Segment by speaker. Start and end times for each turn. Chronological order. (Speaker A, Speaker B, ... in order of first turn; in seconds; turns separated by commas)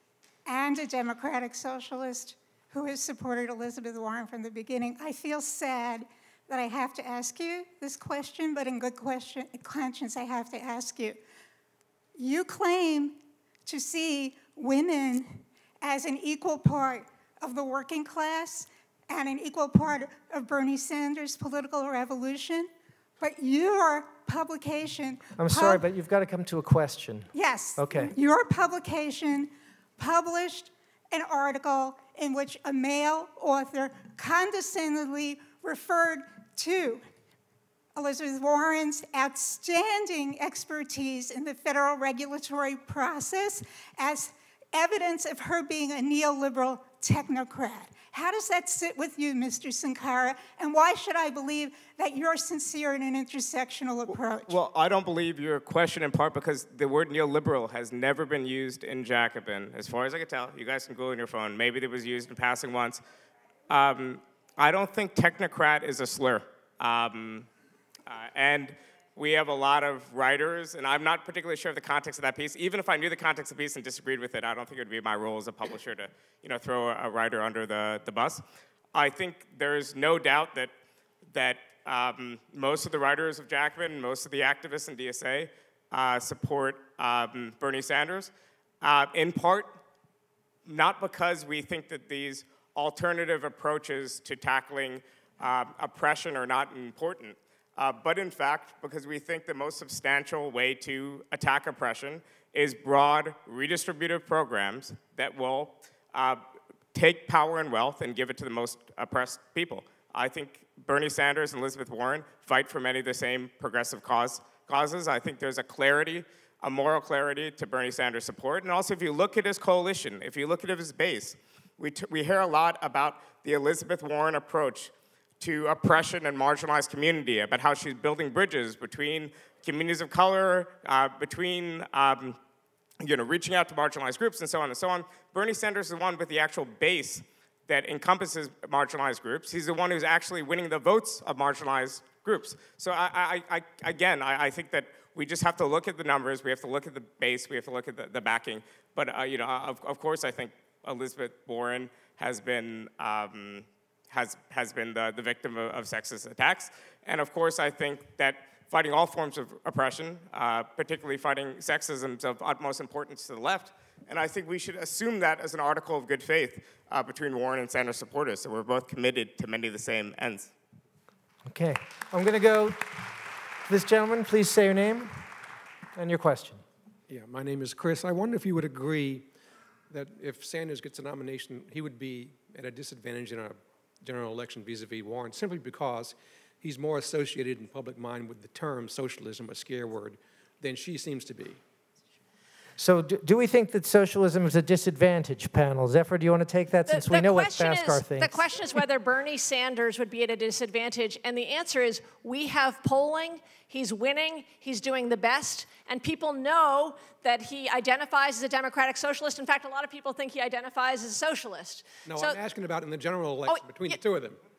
Speaker A: 0.5-11.2, Speaker A: 12.2-25.9, Speaker B: 25.4-28.1, Speaker A: 27.3-37.0, Speaker A: 37.9-54.6, Speaker C: 54.1-63.0, Speaker C: 63.7-67.5, Speaker C: 68.1-78.4, Speaker C: 78.9-80.7, Speaker C: 81.3-89.8, Speaker C: 90.7-106.4, Speaker C: 106.9-132.4, Speaker C: 133.0-170.5, Speaker B: 171.4-172.8, Speaker B: 173.7-175.2, Speaker B: 175.9-176.6, Speaker D: 177.1-179.3, Speaker D: 179.9-191.6, Speaker B: 192.8-198.4, Speaker E: 196.9-212.4, Speaker D: 212.1-214.4, Speaker E: 213.4-214.0